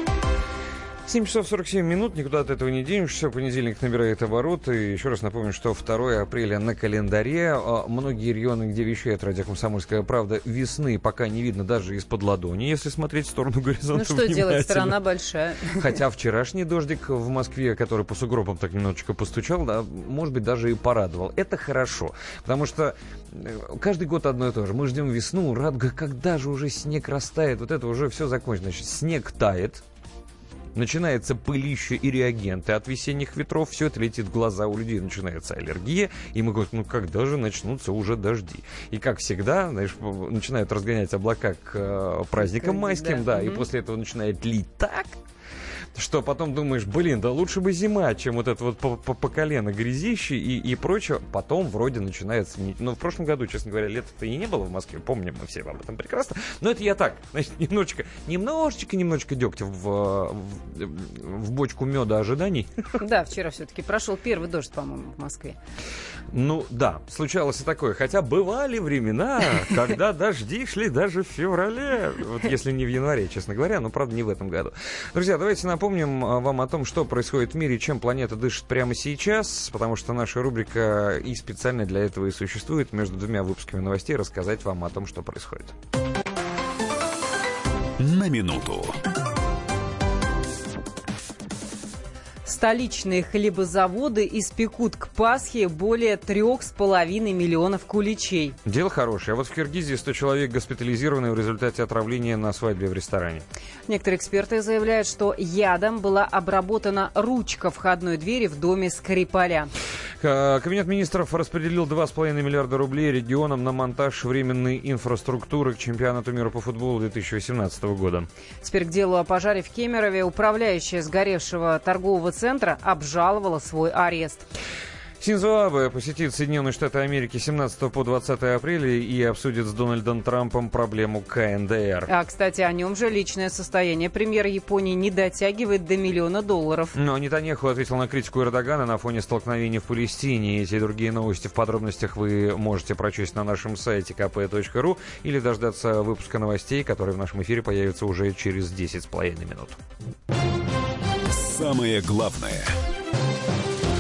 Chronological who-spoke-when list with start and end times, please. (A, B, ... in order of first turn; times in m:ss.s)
0:01.1-0:15.0 A
0:13.9-0:15.8 B
0:15.8-0:29.8 A
0:30.8-0:45.2 A
0:42.4-0:43.6 B
0:46.0-1:02.7 A
1:03.0-1:05.6 B
1:06.3-1:25.7 A
1:28.0-1:29.0 C
1:32.4-1:38.6 B
1:38.6-1:43.4 A
1:43.9-1:49.7 B
1:50.2-1:58.3 A
1:58.6-2:04.5 B
2:05.2-2:12.1 A
2:12.1-2:17.0 B
2:17.0-2:29.8 A
2:31.3-2:32.8 C